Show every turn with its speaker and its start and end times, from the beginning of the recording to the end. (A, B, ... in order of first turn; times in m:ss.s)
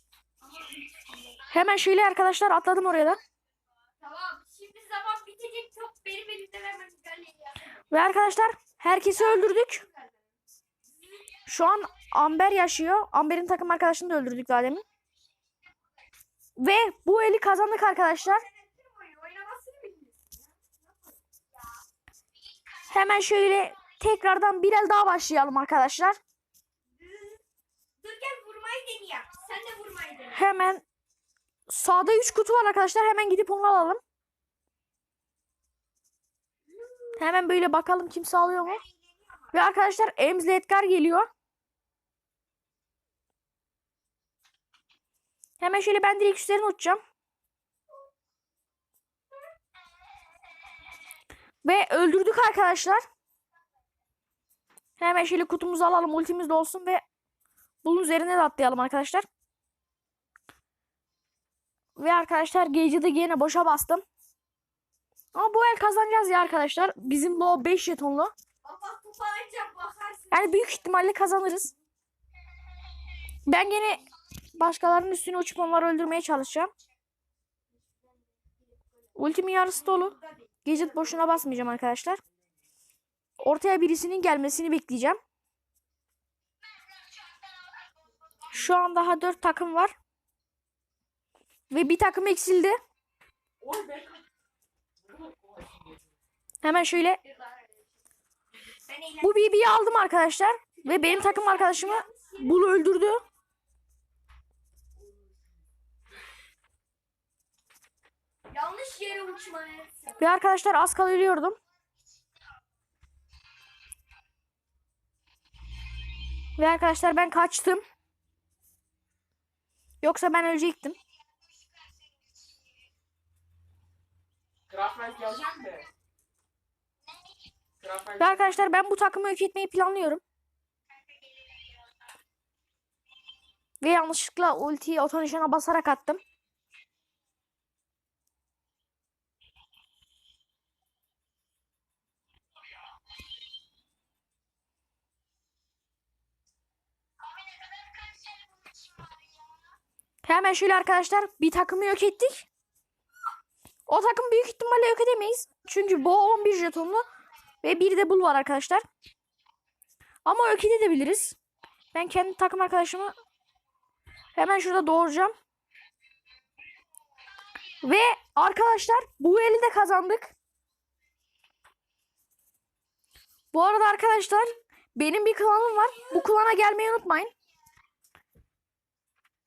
0:00.4-0:01.5 A
0:01.5-0:03.2 B
0:04.0-0:07.8 A
0:07.9-0:09.8 B
0:09.1-0:10.2 A
0:11.5-0:14.8 B
0:16.6-0:18.5 B
0:18.1-0:21.6 A
0:22.9-0:26.2 B
0:27.0-0:27.4 A
0:28.0-0:30.4 A
0:30.3-0:30.8 B
0:31.7-0:34.0 B
0:36.7-0:37.1 A
0:37.2-0:38.8 B
0:38.6-0:39.4 A
0:39.5-0:41.3 B
0:45.6-0:47.0 B
0:51.6-0:53.0 B
0:55.0-0:57.0 B
0:57.8-0:59.3 B
1:02.0-1:04.0 B
1:05.3-1:08.3 B
1:08.6-1:10.9 A
1:10.3-1:11.7 B
1:13.5-1:14.0 B
1:14.6-1:16.7 B
1:19.2-1:22.2 B
1:19.7-1:21.4 A
1:23.4-1:25.2 B
1:28.4-1:30.0 B
1:31.7-1:32.8 B
1:33.6-1:34.2 C
1:35.1-1:36.1 C
1:36.6-1:37.2 B
1:37.2-1:37.9 A
1:38.9-1:39.4 A
1:39.2-1:43.2 B
1:40.7-1:42.7 A
1:48.5-1:50.3 A
1:50.2-1:51.6 B
1:56.6-1:57.8 B
2:00.0-2:01.0 B
2:04.7-2:05.9 C
2:07.8-2:08.3 C
2:08.2-2:10.2 B
2:13.8-2:16.2 B
2:30.2-2:32.5 B
2:33.9-2:37.0 B
2:37.6-2:38.8 B
2:40.2-2:41.4 B
2:41.9-2:43.1 B
2:44.4-2:45.4 B
2:47.8-2:50.3 B
2:53.5-2:57.3 B